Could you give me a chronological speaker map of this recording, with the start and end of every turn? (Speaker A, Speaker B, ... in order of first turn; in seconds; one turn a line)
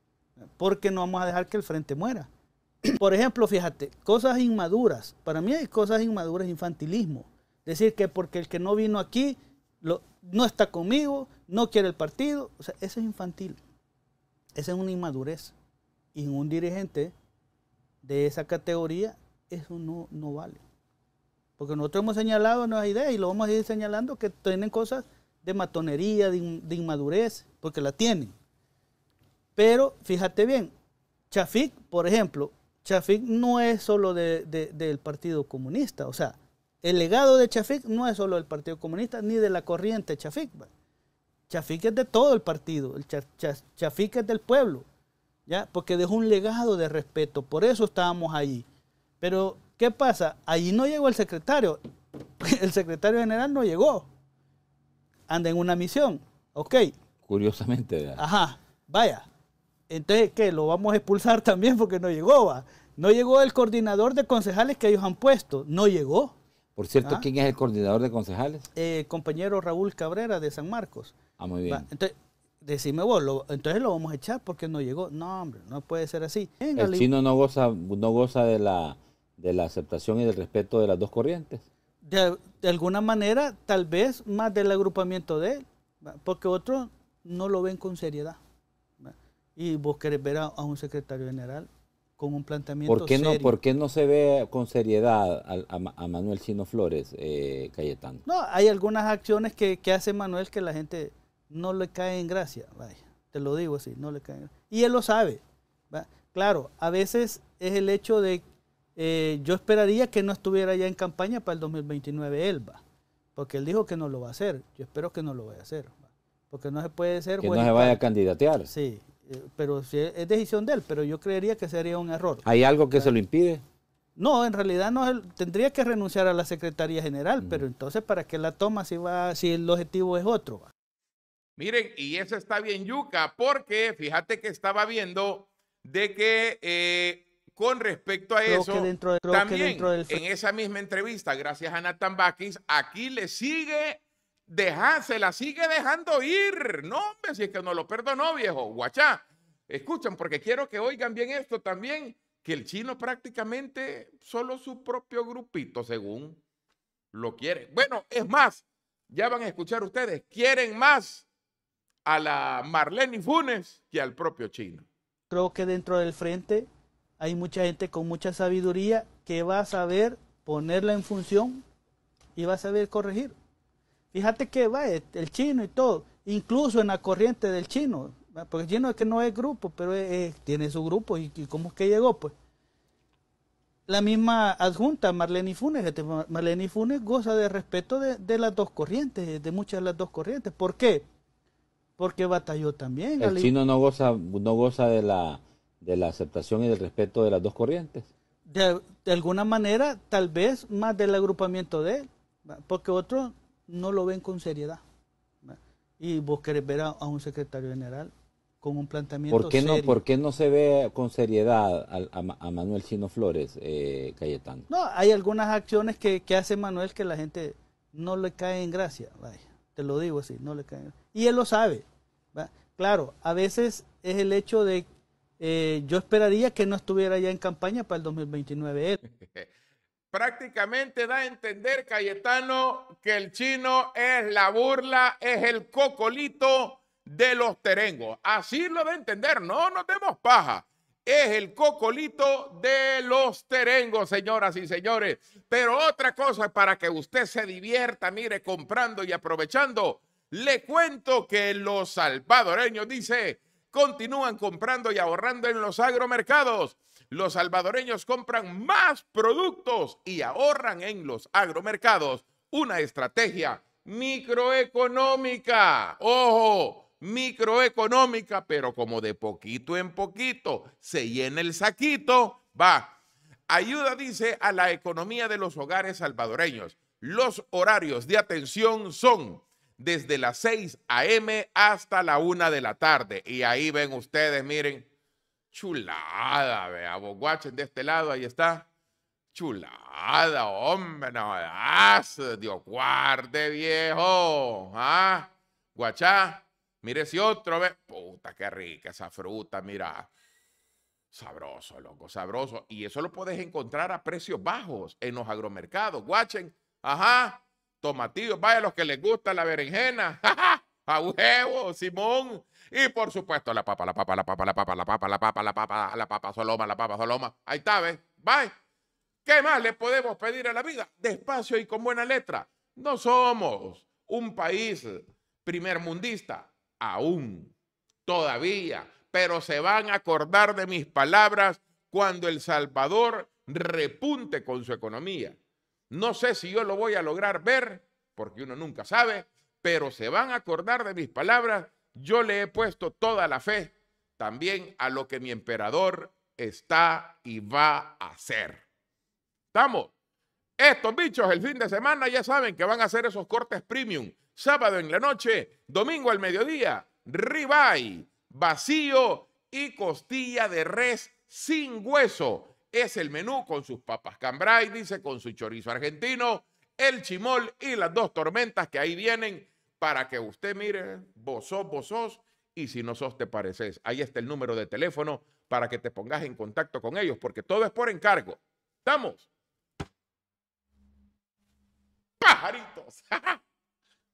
Speaker A: 0.4-2.3
Speaker A: 2.9-13.6
Speaker A: 14.6-15.5
Speaker A: 16.1-17.1
Speaker A: 18.0-20.6
Speaker A: 21.6-28.4
Speaker A: 29.6-30.7
Speaker A: 31.3-40.7
Speaker A: 41.5-44.9
Speaker A: 45.5-48.7
Speaker A: 49.2-51.8
Speaker A: 52.4-54.1
Speaker A: 55.3-56.9
Speaker B: 57.3-58.2
Speaker A: 58.2-59.3
Speaker A: 59.9-66.4
Speaker B: 66.8-68.7
Speaker A: 68.8-77.1
Speaker B: 71.4-71.9
Speaker B: 76.8-81.6
Speaker A: 82.0-88.4
Speaker A: 89.0-93.5
Speaker B: 92.9-98.2
Speaker A: 98.3-108.4
Speaker A: 109.0-112.8
Speaker A: 113.4-118.0
Speaker B: 117.4-118.7
Speaker A: 118.7-123.1
Speaker B: 122.5-123.6
Speaker A: 124.2-130.7
Speaker C: 131.6-156.4
Speaker A: 138.5-140.2
Speaker C: 157.1-161.3
Speaker C: 162.1-164.9
Speaker A: 165.3-171.6
Speaker A: 172.4-173.3
Speaker A: 174.1-182.3
Speaker A: 183.9-191.1
Speaker A: 192.0-193.5
Speaker B: 193.2-198.1
Speaker A: 198.5-204.8
Speaker A: 205.4-210.0
Speaker B: 209.3-214.7
Speaker A: 214.7-224.9
Speaker A: 225.4-229.0
Speaker C: 229.0-229.5
Speaker C: 230.1-272.9
Speaker C: 273.5-284.9
Speaker C: 285.5-288.7
Speaker C: 289.3-300.1
Speaker C: 301.1-318.5
Speaker C: 319.2-327.5
Speaker C: 328.1-335.4
Speaker C: 335.9-348.6
Speaker C: 349.5-349.9
Speaker C: 350.6-379.3
Speaker C: 382.2-383.4